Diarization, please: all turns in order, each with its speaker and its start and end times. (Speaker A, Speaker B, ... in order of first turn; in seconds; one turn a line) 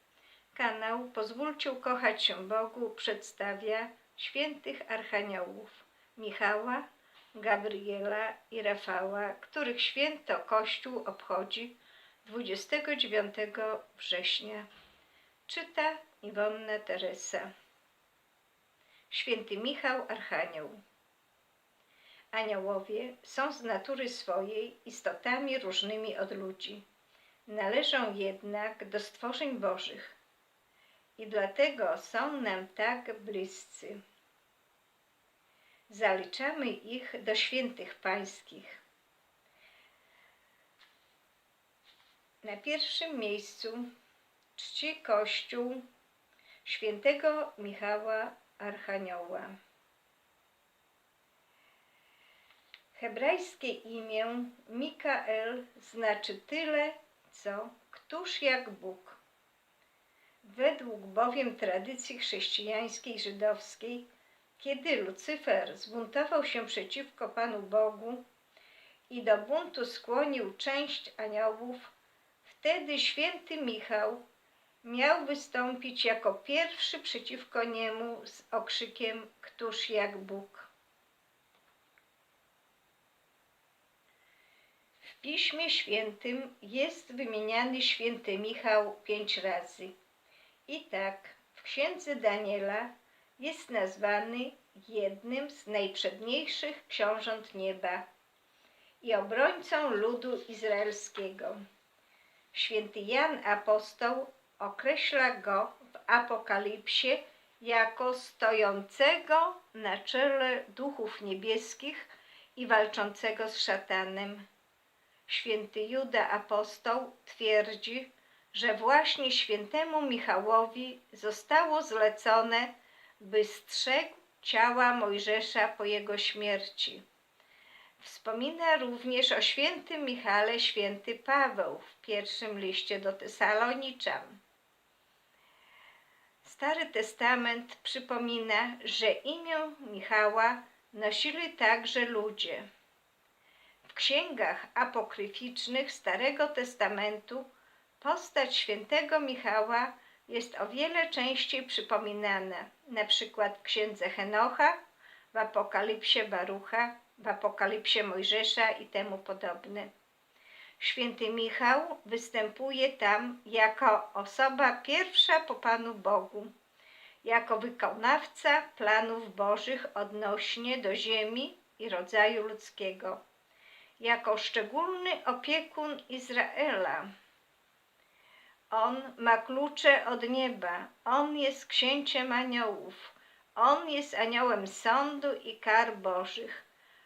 Speaker A: 0.5-14.7
Speaker A: 15.5-17.5
Speaker A: 19.1-20.8
Speaker A: 22.3-26.8
Speaker A: 27.5-30.1
Speaker A: 31.2-34.0
Speaker A: 35.9-38.8
Speaker A: 42.4-43.9
Speaker A: 44.5-45.8
Speaker A: 46.6-49.5
Speaker A: 52.9-59.2
Speaker A: 60.4-64.1
Speaker A: 64.6-68.2
Speaker A: 69.1-71.9
Speaker A: 72.4-74.2
Speaker A: 74.8-80.7
Speaker A: 85.2-89.9
Speaker A: 90.7-98.0
Speaker A: 99.0-101.6
Speaker A: 102.5-114.5
Speaker A: 115.3-127.0
Speaker A: 128.0-134.4
Speaker A: 136.4-142.7
Speaker A: 143.8-147.5
Speaker A: 148.0-154.8
Speaker A: 155.3-159.9
Speaker A: 160.8-166.5
Speaker A: 167.2-173.2
Speaker A: 174.0-177.1
Speaker A: 178.7-186.6